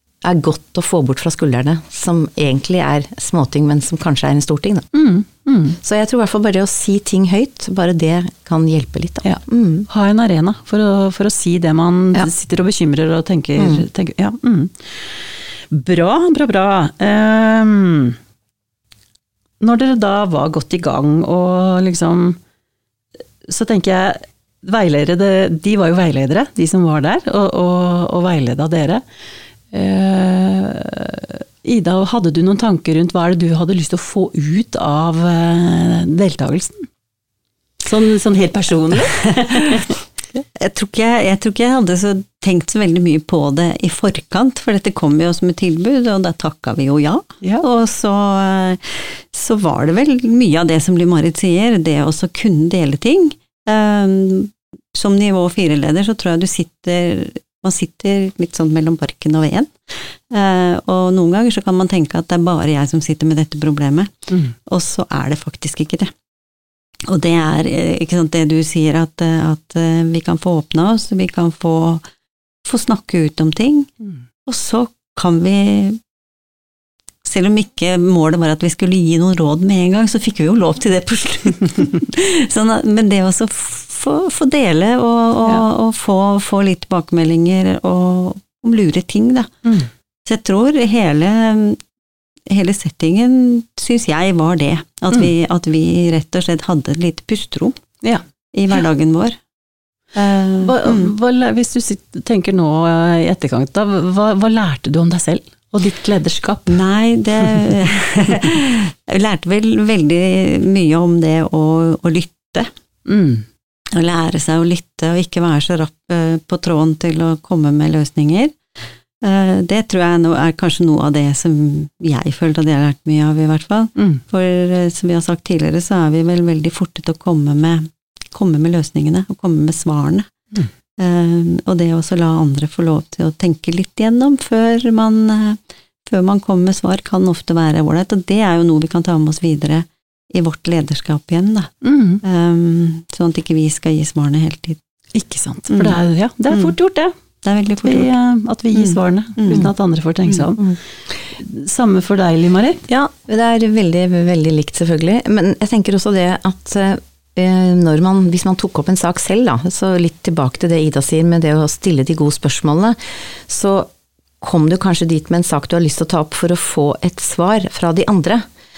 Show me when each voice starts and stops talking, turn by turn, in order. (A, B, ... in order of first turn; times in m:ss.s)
0:00.2-0:04.9 A
0:04.9-0:05.8 B
0:05.8-0:09.9 A
0:09.2-0:18.2 B
0:13.6-0:13.9 A
0:19.6-0:22.4 B
0:23.4-0:29.0 B
0:29.7-0:36.9 B
0:37.8-0:40.0 B
0:40.6-1:06.1 C
1:07.1-1:12.0 C
1:12.6-1:13.9 C
1:14.5-1:16.0 C
1:17.2-1:29.5 C
1:30.3-1:31.8 C
1:32.5-1:37.8 C
1:38.5-1:39.4 C
1:40.2-1:41.1 C
1:40.6-1:46.8 B
1:46.7-1:52.7 C
1:53.1-1:53.5 B
1:53.9-1:58.6 C
1:59.2-2:10.3 C
2:04.0-2:04.2 B
2:11.0-2:21.7 C
2:21.8-2:22.2 B
2:22.2-2:24.8 C
2:25.1-2:27.1 B
2:25.7-2:26.0 C
2:27.4-2:28.1 C
2:27.8-2:30.8 B
2:28.8-2:29.7 C
2:31.3-2:32.9 B
2:32.9-2:48.4 A